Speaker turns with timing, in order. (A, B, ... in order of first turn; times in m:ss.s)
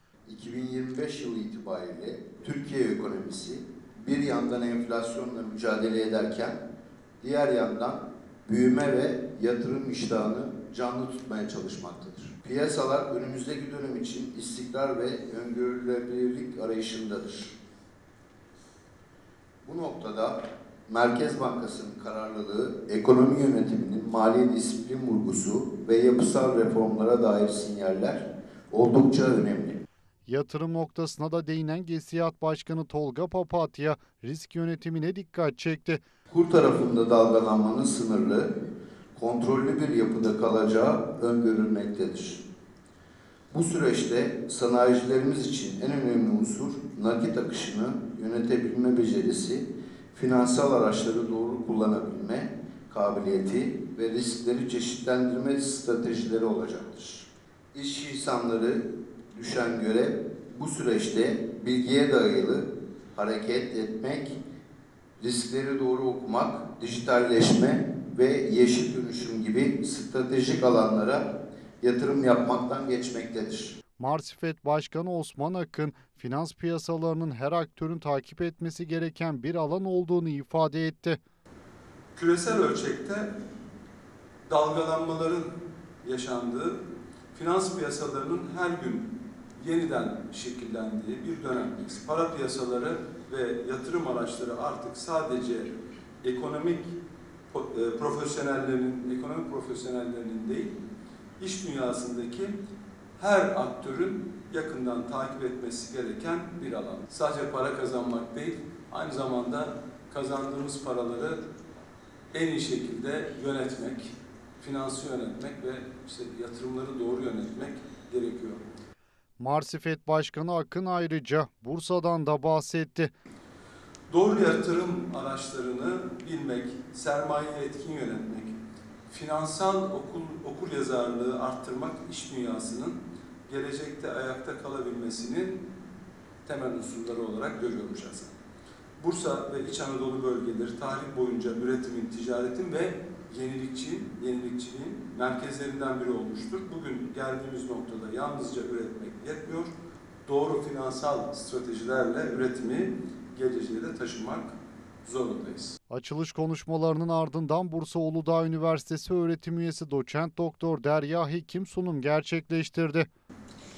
0:00.2-0:06.6 A
0:07.2-0:17.6 A
0:19.6-0:29.8 A
0:30.3-0:36.0 B
0:36.3-0:38.5 A
0:39.1-0:42.4 A
0:43.5-1:04.4 A
1:05.2-1:11.3 A
1:11.8-1:13.8 A
1:14.0-1:21.2 B
1:22.2-1:23.3 C
1:24.5-1:25.5 C
1:26.0-1:26.8 C
1:27.3-1:36.9 C
1:37.5-1:40.7 C
1:41.4-1:42.5 C
1:43.2-1:51.4 C
1:52.3-1:58.6 C
1:59.4-2:03.1 B
2:04.1-2:08.6 C
2:09.1-2:15.6 C
2:16.4-2:18.3 C
2:19.0-2:29.7 C
2:30.2-2:35.8 C
2:35.9-2:43.1 B